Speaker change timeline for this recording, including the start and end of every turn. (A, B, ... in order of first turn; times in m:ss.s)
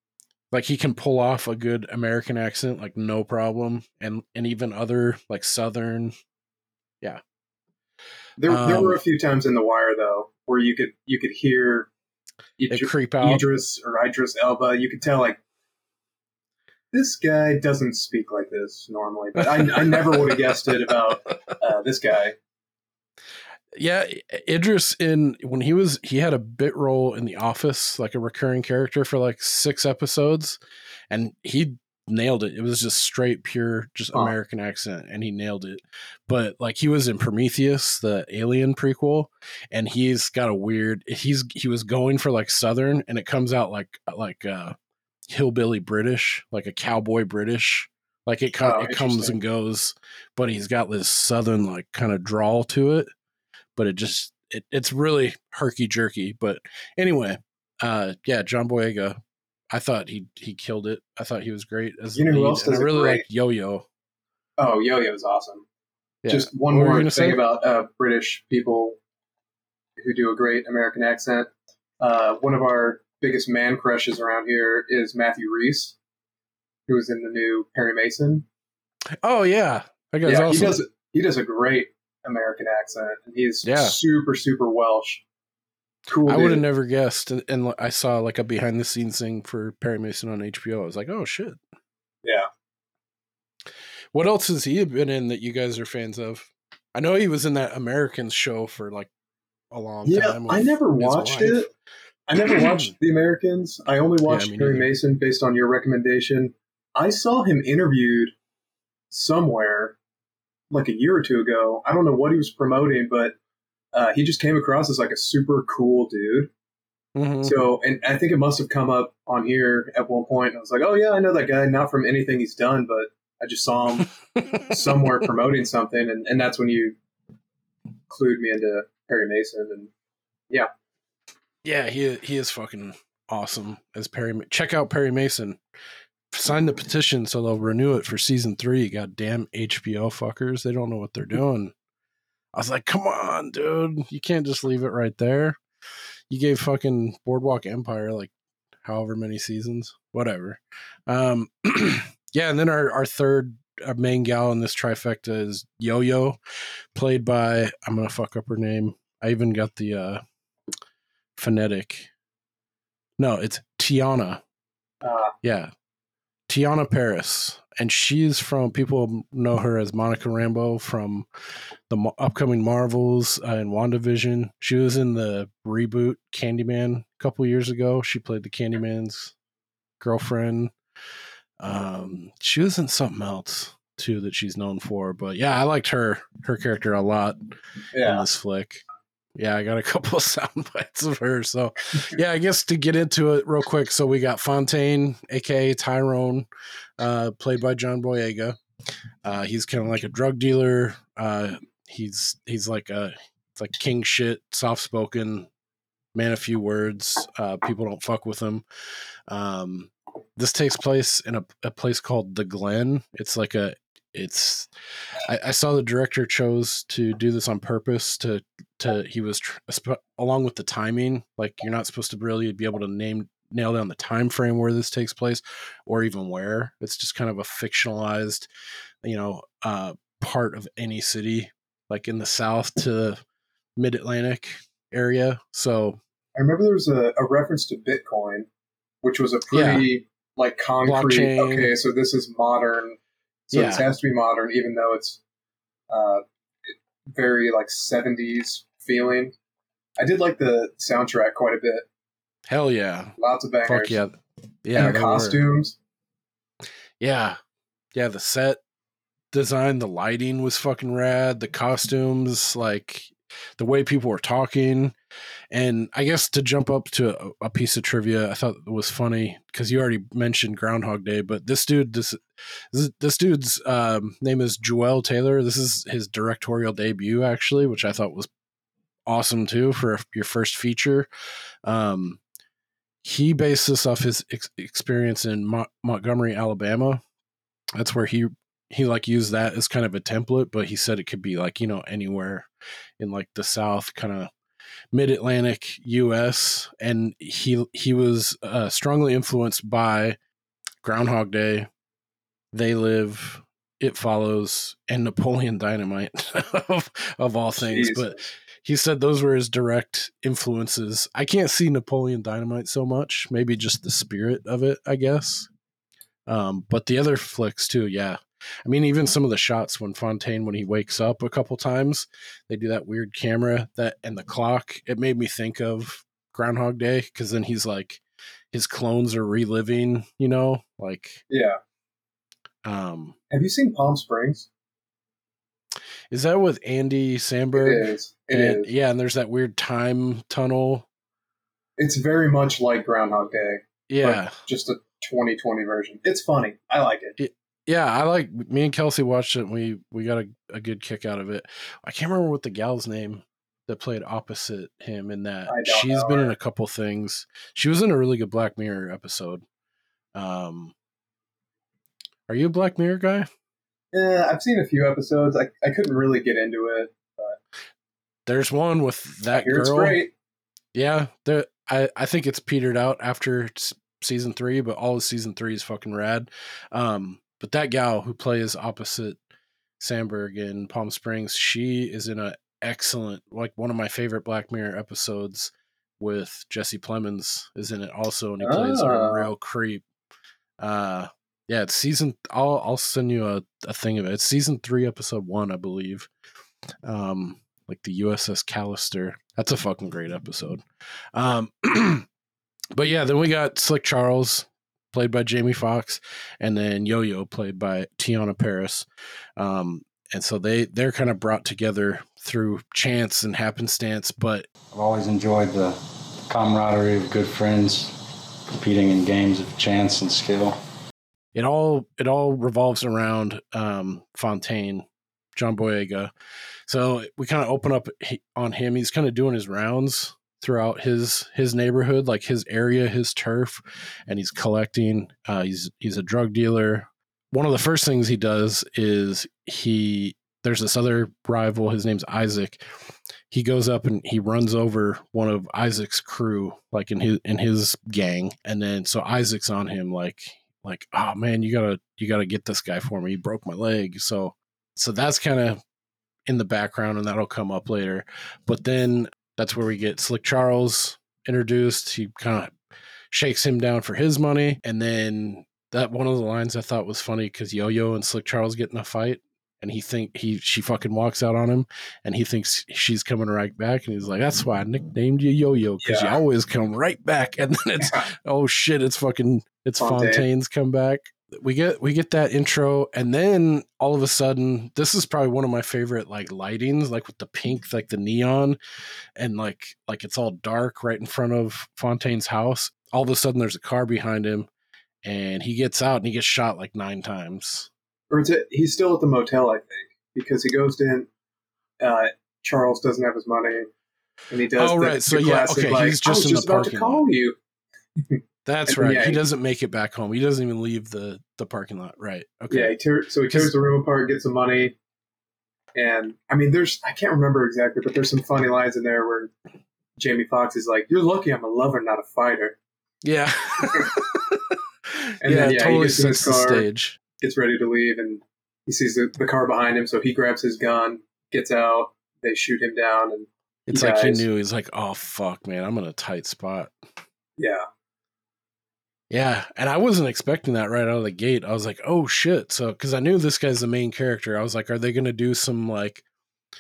0:00.5-0:06.1 A
0:08.4-0:11.9 B
0:08.5-0:09.0 A
0:12.6-0:15.4 B
0:12.7-0:13.4 A
0:16.9-0:22.4 B
0:19.8-0:20.2 A
0:23.8-0:30.6 A
0:31.1-0:44.8 A
0:45.3-0:53.1 A
0:48.6-0:49.4 B
0:53.8-0:59.2 A
0:59.7-1:03.9 A
1:02.2-1:03.2 B
1:04.6-1:05.6 B
1:06.2-1:07.4 A
1:06.3-1:09.0 B
1:10.0-1:16.0 B
1:16.9-1:18.5 B
1:19.2-1:20.8 A
1:20.2-1:25.2 B
1:23.6-1:24.0 A
1:26.1-1:26.6 B
1:26.3-1:31.6 A
1:34.1-1:39.1 A
1:39.7-1:41.7 A
1:40.0-1:41.7 B
1:42.3-1:48.4 B
1:42.4-1:42.9 A
1:44.3-1:44.9 A
1:49.1-1:50.0 B
1:50.7-1:53.4 B
1:53.9-1:56.5 B
1:57.2-1:57.6 A
1:57.4-2:04.1 B
2:04.7-2:07.0 B
2:08.1-2:09.9 B
2:11.6-2:15.6 A
2:16.3-2:21.7 A
2:22.5-2:25.6 A
2:26.3-2:28.3 A
2:28.8-2:36.4 A
2:37.0-2:40.2 A
2:41.4-2:42.1 A
2:43.2-2:44.4 A
2:45.0-2:45.3 B
2:45.4-2:45.7 A
2:46.5-2:51.3 A
2:51.9-2:59.3 A
3:00.0-3:00.7 A
3:01.6-3:07.4 A
3:07.9-3:08.3 B
3:08.0-3:08.8 A
3:09.4-3:16.5 A
3:17.0-3:18.6 A
3:19.2-3:25.5 A
3:26.2-3:28.6 A
3:29.3-3:34.7 A
3:35.3-3:48.5 A
3:49.0-3:53.2 A
3:53.8-3:56.0 A
3:56.4-3:58.5 B
3:59.0-4:05.2 B
3:59.5-3:59.9 A
4:00.8-4:01.7 A
4:03.5-4:03.8 A
4:05.9-4:09.3 B
4:10.0-4:11.9 B
4:12.5-4:13.1 A
4:13.2-4:14.0 B
4:13.6-4:15.4 A
4:14.8-4:15.8 B
4:17.0-4:17.4 A
4:18.0-4:18.6 A
4:19.3-4:25.0 A
4:25.5-4:32.2 A
4:32.7-4:38.3 A
4:39.1-4:41.1 A
4:41.6-4:42.2 A
4:43.0-4:47.0 A
4:47.8-4:52.5 A
4:53.0-4:54.3 A
4:54.9-5:00.2 A
5:00.8-5:01.7 A
5:02.5-5:15.5 A
5:07.6-5:08.2 B
5:16.3-5:28.0 A
5:28.5-5:31.2 A
5:31.3-5:31.6 B
5:32.6-5:33.2 A
5:33.3-5:34.5 B
5:36.1-5:40.9 A
5:37.6-5:38.7 B
5:41.8-5:47.2 B
5:43.9-5:44.4 A
5:47.2-5:59.4 A
5:55.5-5:56.3 B
6:00.2-6:00.7 A
6:02.3-6:03.3 A
6:03.9-6:07.4 B
6:08.3-6:10.0 A
6:09.3-6:10.1 B
6:10.7-6:19.2 A
6:19.8-6:29.8 A
6:28.4-6:29.3 B
6:30.6-6:36.1 A
6:36.8-6:40.6 A
6:41.1-6:42.1 A
6:42.8-6:54.5 A
6:54.7-6:55.8 C
6:56.3-6:57.9 C
6:58.6-7:00.6 C
7:01.4-7:06.1 A
7:06.7-7:22.6 A
7:23.3-7:35.6 A
7:36.3-7:42.6 A
7:43.1-8:08.6 A
7:55.8-7:56.2 B
7:57.8-7:58.1 B
7:59.8-8:00.3 B
8:09.2-8:14.5 A
8:15.0-8:17.7 A
8:18.1-8:21.1 B
8:21.8-8:23.7 B
8:24.3-8:27.4 B
8:24.6-8:27.0 A
8:28.0-8:29.2 B
8:28.4-8:32.8 A
8:32.5-8:34.8 B
8:35.8-8:39.3 B
8:40.0-8:42.6 B
8:43.0-8:44.4 A
8:45.0-8:47.0 A
8:45.2-8:46.7 B
8:47.2-8:54.3 B
8:53.7-8:56.7 A
8:57.4-8:57.7 B
8:59.1-9:06.0 A